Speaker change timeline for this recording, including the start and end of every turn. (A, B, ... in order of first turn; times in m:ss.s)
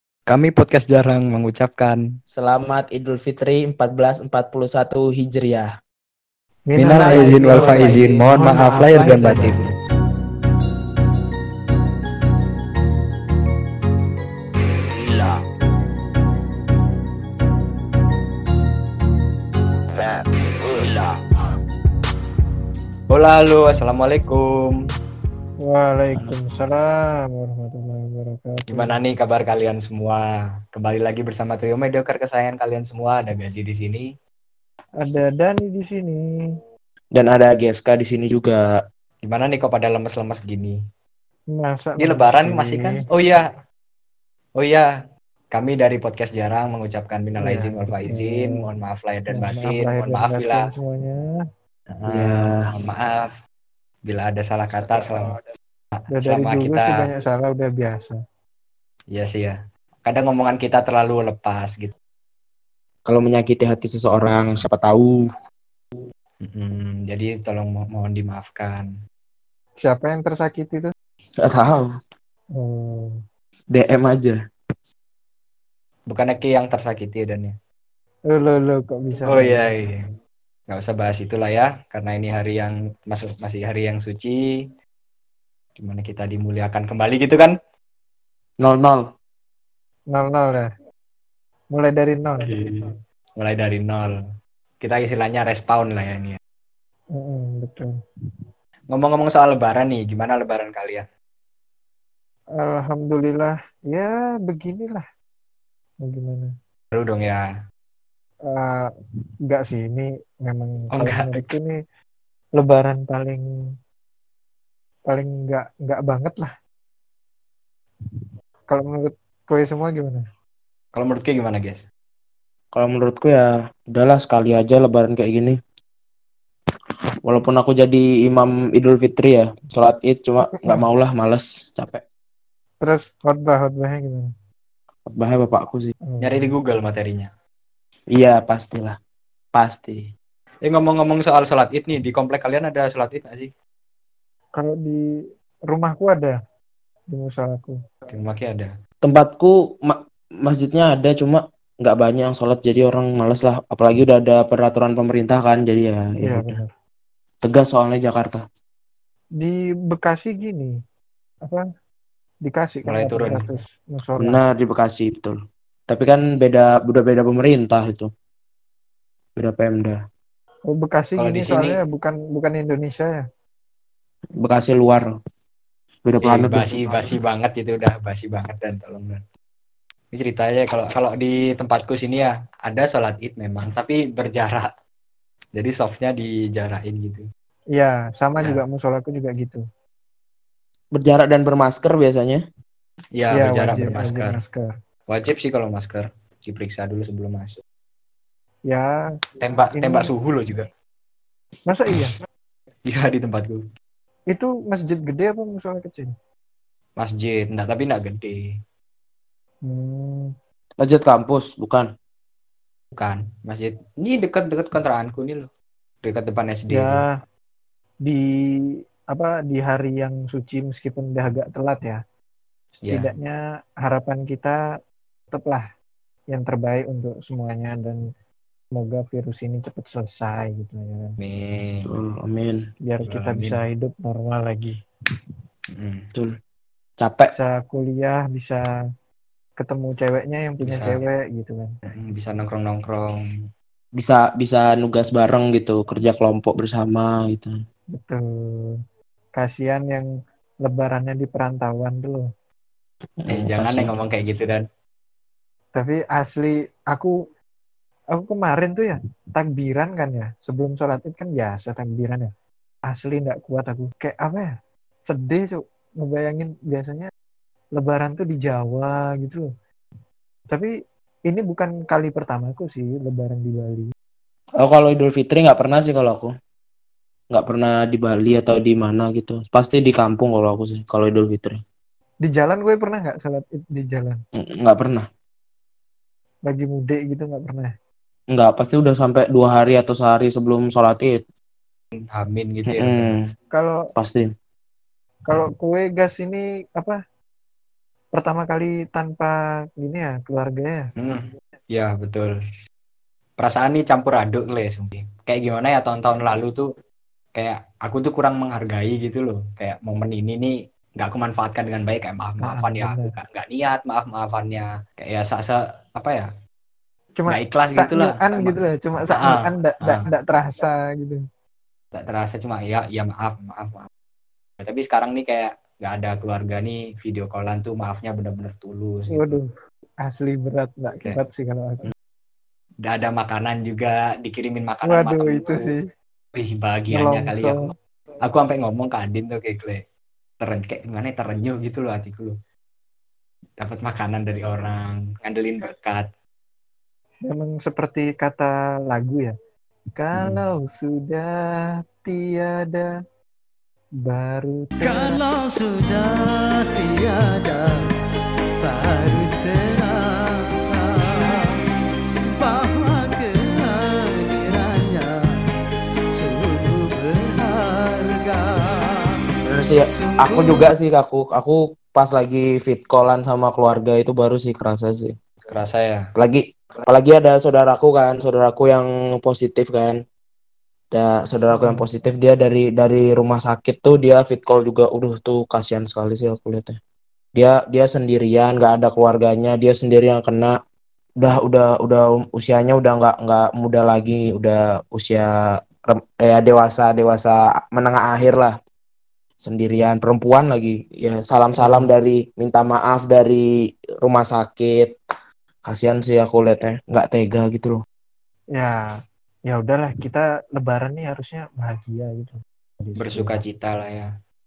0:00.3-0:02.0 A
0:02.3-0:05.7 B
0:06.7-0:08.0 C
0:06.8-0:09.6 A
0:06.8-0:09.7 B
0:09.1-0:09.5 C
0:14.9-0:15.4 B
0:19.9-0:21.1 B
0:23.1-0:24.8 A
0:25.6-0:28.9 C
0:28.7-0:34.1 A
0:35.0-0:36.2 C
0:37.1-0:38.6 B
0:39.2-0:40.8 A
0:41.5-0:43.0 C
0:42.0-0:43.4 A
0:44.6-0:44.9 A
0:45.5-0:50.7 A
0:47.4-0:48.6 C
0:49.3-0:51.2 C
0:51.9-0:53.3 A
0:52.1-0:52.7 B
0:54.0-0:55.4 A
0:56.1-0:58.2 C
0:56.2-0:57.1 A
0:59.1-1:01.9 A
1:03.1-1:05.1 B
1:06.4-1:08.8 A
1:09.8-1:10.9 C
1:11.4-1:11.9 B
1:12.6-1:13.2 C
1:13.7-1:14.4 B
1:16.1-1:17.6 A
1:18.3-1:19.7 C
1:19.3-1:20.0 A
1:20.7-1:24.5 A
1:25.8-1:27.5 A
1:28.6-1:29.1 B
1:30.1-1:30.7 C
1:31.7-1:32.9 C
1:32.4-1:32.8 A
1:33.4-1:34.2 A
1:34.8-1:36.4 A
1:37.2-1:37.9 C
1:38.9-1:41.1 A
1:42.6-1:45.0 C
1:46.0-1:46.5 C
1:46.9-1:47.4 A
1:48.5-1:48.9 C
1:49.5-1:51.8 C
1:51.0-1:51.5 A
1:52.6-1:53.4 C
1:55.1-1:56.5 C
1:58.7-2:00.2 C
2:00.9-2:01.8 A
2:02.7-2:05.6 B
2:07.2-2:12.0 B
2:12.8-2:14.3 C
2:15.1-2:15.9 B
2:16.1-2:16.5 C
2:16.2-2:17.3 A
2:18.2-2:19.0 B
2:19.5-2:20.1 B
2:20.6-2:23.5 A
2:24.5-2:25.0 C
2:25.7-2:26.4 C
2:27.1-2:27.8 C
2:28.1-2:28.7 A
2:29.0-2:36.6 B
2:36.2-2:36.7 C
2:37.4-2:38.4 B
2:39.4-2:40.7 C
2:42.4-2:44.4 C
2:42.9-2:43.5 A
2:44.2-2:45.3 B
2:45.9-2:48.1 B
2:49.4-2:50.0 B
2:50.7-2:53.2 C
2:51.2-2:51.8 A
2:54.4-2:55.0 B
2:56.0-2:57.1 B
2:56.2-2:59.2 A
3:00.1-3:04.7 A
3:05.6-3:07.2 A
3:07.8-3:09.6 C
3:10.9-3:12.4 B
3:13.2-3:14.4 A
3:13.3-3:14.7 C
3:15.1-3:17.6 A
3:19.4-3:20.7 A
3:19.8-3:20.1 C
3:21.7-3:22.1 C
3:22.8-3:23.6 A
3:24.3-3:26.1 C
3:27.0-3:28.4 A
3:29.7-3:30.3 C
3:30.8-3:31.9 B
3:33.0-3:35.5 A
3:36.0-3:37.0 A
3:36.7-3:37.0 C
3:39.1-3:42.0 C
3:42.8-3:43.1 A
3:42.9-3:44.6 C
3:45.3-3:45.6 C
3:46.3-3:48.0 C
3:48.7-3:51.2 C
3:51.2-3:51.9 A
3:51.8-3:52.6 B
3:52.8-3:54.7 C
3:53.1-3:53.6 A
3:55.7-3:56.0 A
3:57.0-3:57.3 B
3:57.3-3:58.6 C
3:59.6-4:01.7 C
4:00.6-4:01.0 A
4:01.9-4:03.2 A
4:04.0-4:07.5 B
4:07.9-4:08.8 C
4:09.4-4:10.0 C
4:10.6-4:12.3 C
4:13.2-4:13.9 B
4:13.3-4:14.6 A
4:15.8-4:17.1 C
4:18.1-4:22.3 C
4:22.9-4:24.5 C
4:25.1-4:27.1 C
4:27.8-4:29.5 C
4:31.3-4:33.9 C
4:34.6-4:36.3 B
4:37.3-4:41.6 B
4:42.2-4:44.2 C
4:44.4-4:45.1 B
4:46.4-4:47.7 C
4:48.3-4:51.2 B
4:52.0-4:53.1 A
4:52.7-4:53.2 B
4:54.0-4:54.3 B
4:55.3-4:57.0 C
4:58.1-5:00.8 C
5:01.0-5:02.4 A
5:03.4-5:06.7 A
5:07.4-5:16.3 A
5:12.4-5:13.1 C
5:17.2-5:21.2 C
5:17.3-5:20.0 A
5:21.9-5:23.9 A
5:24.6-5:29.4 A
5:29.1-5:29.5 C
5:30.0-5:31.9 C
5:32.8-5:35.7 A
5:34.8-5:35.8 C
5:36.3-5:37.7 A
5:36.9-5:37.5 C
5:38.2-5:39.8 A
5:40.4-5:42.3 A
5:43.6-5:46.1 A
5:47.3-5:49.3 C
5:50.0-5:51.3 C
5:50.2-5:50.4 A
5:52.0-5:52.9 C
5:54.0-5:55.2 C
5:54.8-5:57.8 D
5:58.6-6:01.6 D
6:02.4-6:05.2 D
6:06.1-6:09.2 D
6:09.5-6:15.2 B
6:09.8-6:10.7 D
6:15.4-6:16.0 A
6:16.2-6:20.0 B
6:20.9-6:26.8 B
6:21.5-6:21.8 C
6:27.4-6:30.5 B
6:31.2-6:38.5 B
6:39.4-6:43.4 B
6:41.6-6:41.9 C
6:44.0-6:44.9 B
6:45.6-6:47.8 B
6:48.6-6:48.8 C
6:49.5-6:53.4 C
6:53.0-6:54.1 A